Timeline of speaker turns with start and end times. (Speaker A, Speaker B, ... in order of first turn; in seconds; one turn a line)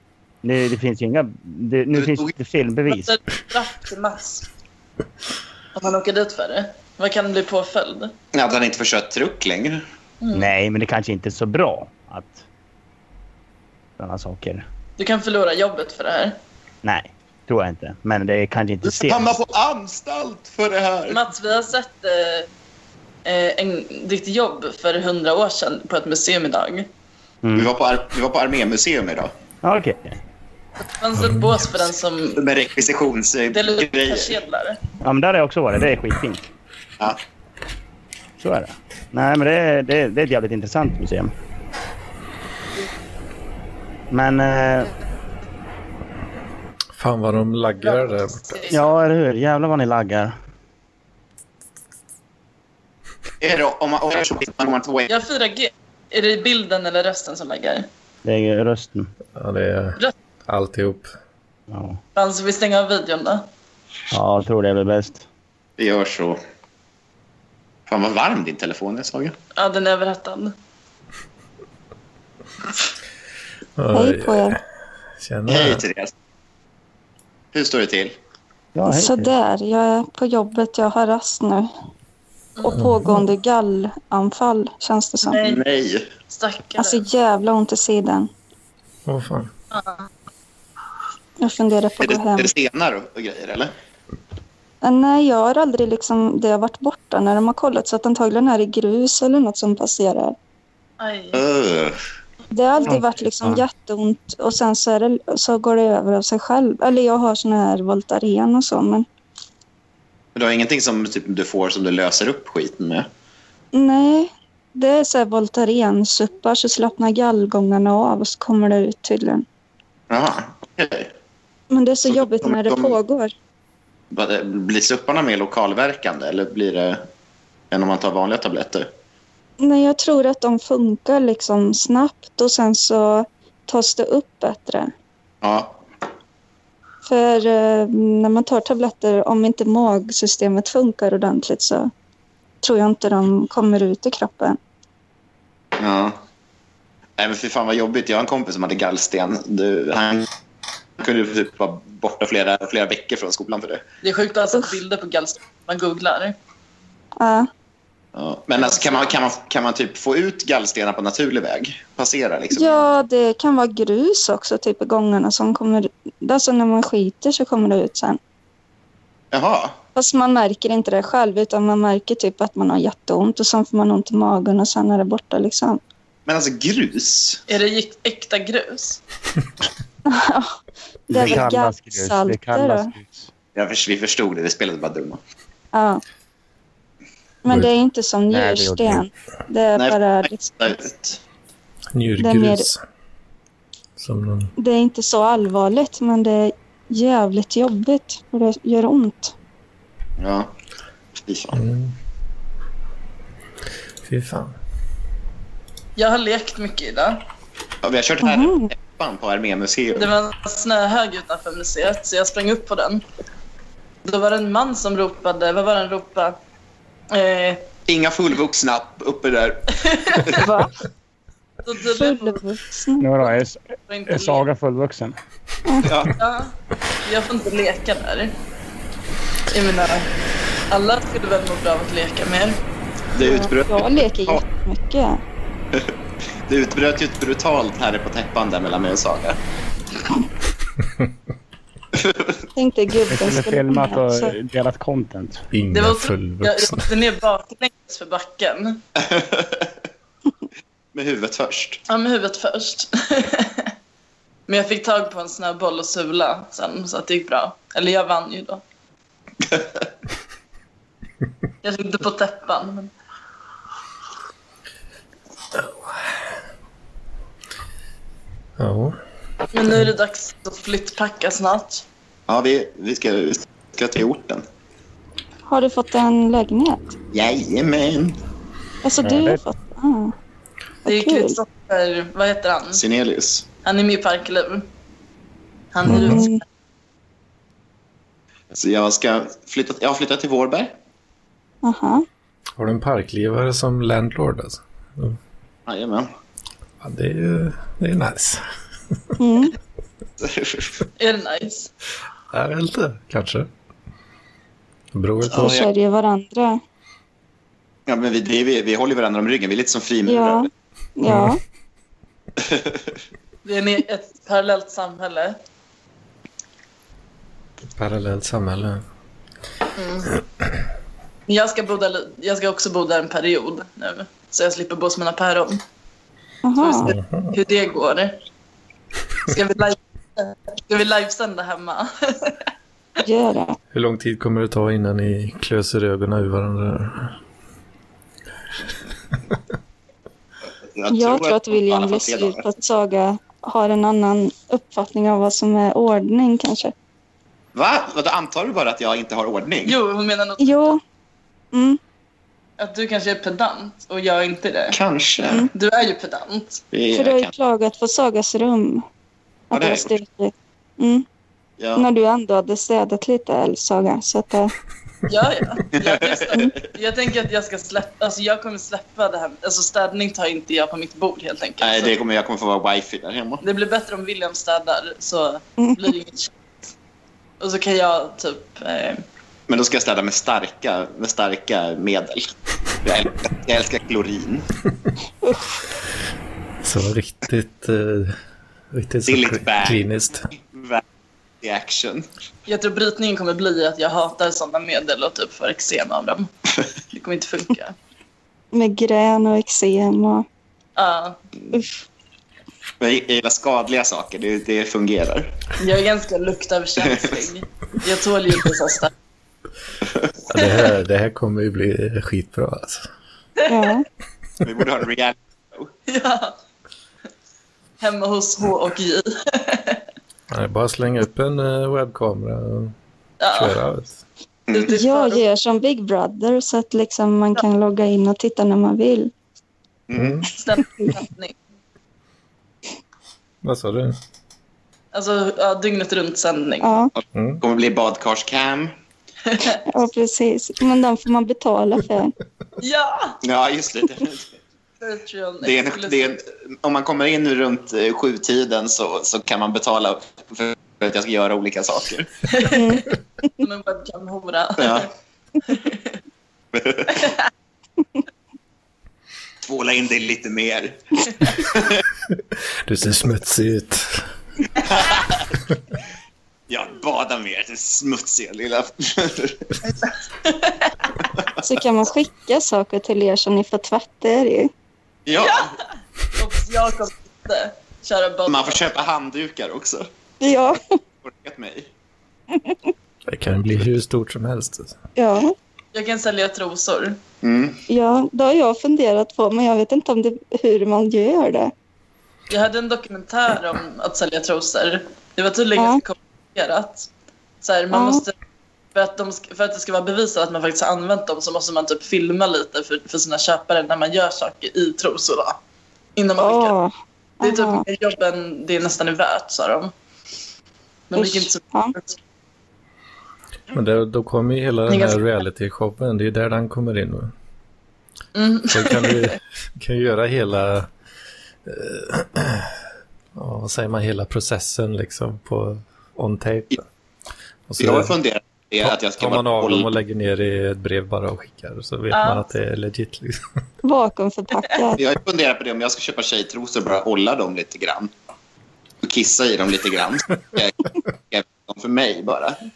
Speaker A: 0.4-3.2
Speaker B: 2.9-4.5
Speaker B: 5.8-8.1
Speaker C: 8.3-9.8
Speaker B: 10.2-10.5
Speaker A: 10.3-12.4
Speaker A: 14.0-14.7
Speaker B: 15.0-16.4
Speaker A: 16.8-19.4
Speaker C: 18.9-21.2
Speaker B: 21.1-22.5
Speaker B: 23.2-26.9
Speaker A: 27.4-27.7
Speaker C: 27.6-29.3
Speaker A: 29.6-30.2
Speaker B: 30.8-32.4
Speaker D: 31.2-31.7
Speaker C: 32.4-34.4
Speaker B: 33.5-34.8
Speaker A: 35.0-36.4
Speaker A: 38.4-41.3
Speaker A: 44.1-44.9
Speaker D: 47.0-48.6
Speaker B: 47.9-48.8
Speaker A: 48.7-50.3
Speaker C: 53.4-55.1
Speaker B: 55.1-57.9
Speaker A: 58.2-59.1
Speaker D: 59.4-61.1
Speaker A: 61.7-62.0
Speaker B: 62.1-63.5
Speaker A: 64.1-65.3
Speaker C: 65.8-66.4
Speaker C: 67.9-69.3
Speaker B: 69.6-70.5
Speaker D: 73.8-74.6
Speaker E: 73.9-74.6
Speaker D: 75.2-75.8
Speaker C: 75.5-76.1
Speaker C: 77.5-78.2
Speaker A: 78.8-79.3
Speaker E: 78.9-81.7
Speaker B: 82.6-82.8
Speaker E: 82.6-85.4
Speaker D: 82.8-83.2
Speaker B: 85.2-85.6
Speaker C: 85.4-86.1
Speaker B: 86.3-87.0
Speaker E: 86.8-88.3
Speaker D: 89.1-89.5
Speaker B: 89.7-90.1
Speaker E: 91.4-92.5
Speaker C: 92.0-93.7
Speaker E: 94.8-100.4
Speaker B: 101.0-101.4
Speaker C: 101.3-102.0
Speaker E: 102.5-109.1
Speaker A: 102.9-103.6
Speaker C: 110.3-113.1
Speaker E: 113.7-119.4
Speaker C: 120.1-121.1
Speaker E: 121.7-123.3
Speaker C: 122.1-123.0
Speaker C: 124.1-127.0
Speaker C: 127.7-128.9
Speaker E: 129.6-134.9
Speaker C: 135.4-135.8
Speaker E: 137.0-141.9
Speaker E: 142.6-144.6
Speaker C: 145.8-146.2
Speaker C: 147.2-150.3
Speaker C: 151.0-153.8
Speaker B: 154.0-156.4
Speaker E: 157.2-157.5
Speaker C: 158.2-162.9
Speaker B: 158.6-159.2
Speaker E: 162.5-168.2
Speaker C: 169.3-169.8
Speaker E: 169.9-175.8
Speaker C: 176.3-177.4
Speaker B: 177.5-179.0
Speaker E: 180.1-180.6
Speaker E: 181.1-182.9
Speaker A: 181.1-183.3
Speaker C: 183.6-185.2
Speaker E: 185.7-186.0
Speaker E: 187.4-190.6
Speaker A: 188.3-189.1
Speaker C: 189.8-191.2
Speaker D: 191.9-192.8
Speaker E: 192.2-192.7
Speaker D: 194.0-194.5
Speaker E: 194.6-199.3
Speaker C: 200.2-200.5
Speaker C: 201.3-201.6
Speaker D: 201.5-202.0
Speaker D: 204.0-204.6
Speaker B: 206.0-207.2
Speaker C: 207.8-210.2
Speaker E: 208.2-208.7
Speaker B: 209.9-213.0
Speaker B: 214.0-216.4
Speaker B: 217.1-217.7
Speaker C: 217.9-220.5
Speaker B: 219.9-220.4
Speaker E: 220.3-220.7
Speaker B: 221.7-222.4
Speaker E: 221.9-223.1
Speaker A: 223.0-225.2
Speaker B: 223.9-224.4
Speaker E: 225.7-225.9
Speaker C: 225.8-226.2
Speaker B: 226.2-228.4
Speaker B: 229.5-230.1
Speaker B: 230.7-232.6
Speaker C: 233.1-234.4
Speaker E: 233.2-235.2
Speaker C: 236.5-239.4
Speaker C: 241.9-242.4
Speaker E: 242.6-244.3
Speaker A: 243.1-245.4
Speaker D: 245.5-247.0
Speaker B: 245.7-248.8
Speaker C: 249.0-249.7
Speaker C: 250.9-251.8
Speaker B: 251.9-253.7
Speaker B: 254.5-258.6
Speaker C: 259.5-259.8
Speaker B: 261.6-262.9
Speaker D: 265.6-266.1
Speaker D: 268.6-269.0
Speaker B: 269.5-271.9
Speaker C: 272.3-274.4
Speaker E: 275.5-276.9
Speaker C: 277.1-278.2
Speaker E: 278.8-280.1
Speaker A: 279.0-279.4
Speaker E: 280.9-281.4
Speaker B: 280.9-282.8
Speaker C: 282.7-283.4
Speaker B: 283.6-284.7
Speaker B: 285.7-286.4
Speaker D: 285.9-286.3
Speaker E: 285.9-286.4
Speaker C: 288.5-290.7
Speaker E: 291.6-292.1
Speaker D: 292.6-295.2
Speaker C: 295.7-296.1
Speaker D: 296.8-298.4
Speaker E: 299.2-299.6
Speaker C: 300.2-300.9
Speaker B: 301.0-301.7
Speaker D: 302.3-303.5
Speaker D: 304.9-305.6
Speaker E: 305.3-306.6
Speaker C: 305.3-305.7
Speaker C: 307.9-310.5
Speaker E: 310.1-311.4
Speaker D: 311.1-311.4
Speaker C: 312.4-312.9
Speaker B: 313.4-315.4
Speaker D: 317.8-318.8
Speaker B: 319.8-320.1
Speaker B: 321.3-325.6
Speaker E: 326.4-326.9
Speaker B: 326.6-328.2
Speaker D: 326.8-327.4
Speaker B: 329.2-332.4
Speaker E: 333.0-333.6
Speaker D: 333.7-337.2
Speaker C: 340.8-342.4
Speaker E: 340.9-346.7
Speaker C: 347.6-349.8
Speaker B: 349.6-350.8
Speaker E: 350.4-350.8
Speaker E: 351.5-351.8
Speaker B: 352.6-354.8
Speaker C: 354.7-355.5
Speaker B: 355.5-356.6
Speaker C: 356.7-357.3
Speaker E: 356.9-358.9
Speaker E: 359.5-361.1
Speaker C: 359.5-359.9
Speaker C: 361.6-361.9
Speaker E: 361.8-364.5
Speaker B: 365.1-371.9
Speaker C: 365.7-366.6
Speaker C: 371.6-373.4
Speaker B: 373.4-376.3
Speaker B: 377.4-379.0
Speaker C: 379.5-382.3
Speaker C: 382.8-384.5
Speaker E: 385.2-385.5
Speaker D: 386.6-388.1
Speaker D: 388.7-390.3
Speaker C: 389.1-390.8
Speaker C: 391.4-392.1
Speaker B: 392.5-396.3
Speaker B: 396.9-397.8
Speaker E: 398.5-400.2
Speaker B: 400.8-401.2
Speaker C: 402.8-405.4
Speaker B: 405.6-408.9
Speaker C: 406.8-407.1
Speaker D: 410.3-412.9
Speaker B: 413.4-413.7
Speaker E: 413.5-413.9
Speaker C: 414.4-415.7
Speaker B: 415.9-416.4
Speaker B: 417.8-419.8
Speaker D: 420.3-422.7
Speaker B: 423.2-423.6
Speaker D: 423.3-424.0
Speaker B: 424.5-425.2
Speaker E: 424.7-429.1
Speaker C: 429.9-430.3
Speaker D: 429.9-430.3
Speaker B: 430.3-431.4
Speaker D: 433.4-434.0
Speaker B: 434.9-436.7
Speaker E: 436.6-436.9
Speaker C: 437.0-438.7
Speaker D: 437.1-437.4
Speaker B: 439.3-439.6
Speaker E: 439.6-442.1
Speaker B: 442.6-443.2
Speaker C: 443.2-444.3
Speaker B: 444.8-446.1
Speaker C: 445.4-452.1
Speaker B: 452.3-454.9
Speaker E: 452.4-452.9
Speaker C: 454.6-454.9
Speaker B: 455.5-456.0
Speaker C: 456.5-457.1
Speaker C: 459.4-461.8
Speaker D: 462.1-464.1
Speaker C: 464.6-465.3
Speaker C: 466.5-469.6
Speaker B: 470.2-470.7
Speaker E: 471.4-474.5
Speaker C: 475.1-475.6
Speaker B: 475.1-475.6
Speaker B: 476.2-478.6
Speaker C: 478.3-479.9
Speaker E: 480.2-480.8
Speaker C: 481.0-481.7
Speaker D: 483.1-484.8
Speaker E: 485.0-485.3
Speaker B: 485.7-487.0
Speaker C: 487.2-487.6
Speaker E: 487.7-491.5
Speaker B: 492.3-496.9
Speaker B: 497.4-498.1
Speaker E: 497.7-498.0
Speaker B: 498.8-505.4
Speaker B: 506.0-506.6
Speaker E: 506.2-507.6
Speaker B: 507.2-509.7
Speaker B: 510.9-512.0
Speaker E: 510.9-511.8
Speaker D: 513.5-517.1
Speaker B: 514.7-515.0
Speaker B: 518.1-519.2
Speaker D: 518.5-520.7
Speaker D: 521.5-522.6
Speaker D: 523.1-526.6
Speaker D: 527.5-528.0
Speaker C: 527.6-529.7
Speaker D: 528.6-533.2
Speaker B: 531.9-532.3
Speaker E: 533.6-534.8
Speaker C: 534.8-537.9
Speaker C: 538.8-542.4